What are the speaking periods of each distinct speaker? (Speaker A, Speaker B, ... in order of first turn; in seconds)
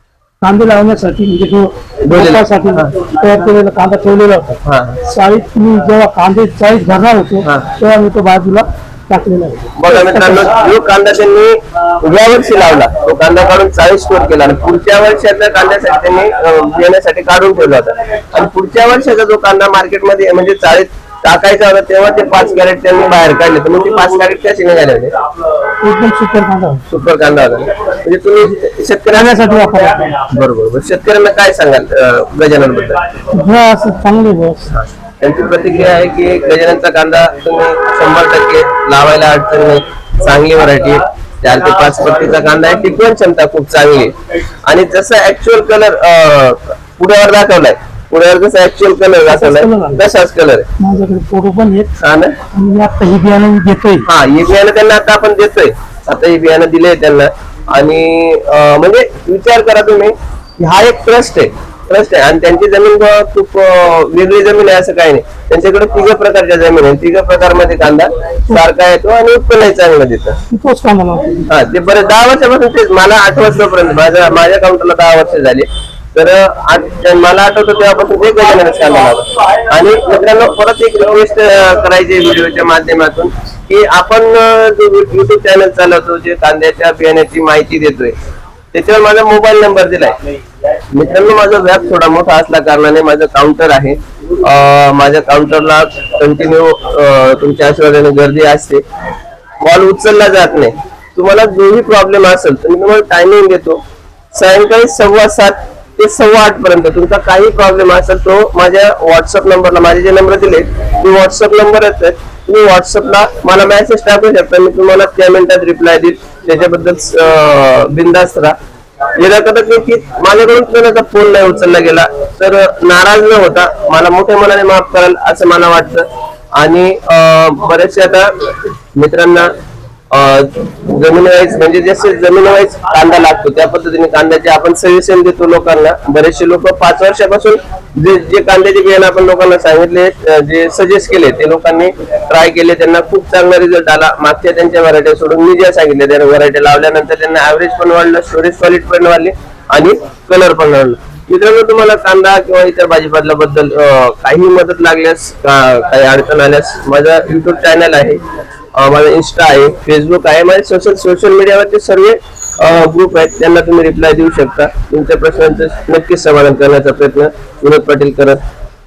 Speaker A: 0.4-10.5, 25.8-26.8, 29.1-30.2, 33.3-34.7, 49.3-50.0, 50.8-52.0, 52.5-54.1, 70.5-71.5
Speaker B: 2.0-2.9, 4.6-5.0, 7.4-7.7, 9.8-25.1, 26.9-29.4, 30.3-33.0, 34.7-50.6, 52.0-52.4, 54.0-70.4, 71.5-88.1, 88.7-90.2, 90.9-98.8, 99.6-103.8, 104.3-118.5, 119.2-126.0, 126.6-128.3, 128.9-129.5, 130.1-158.2, 158.8-168.4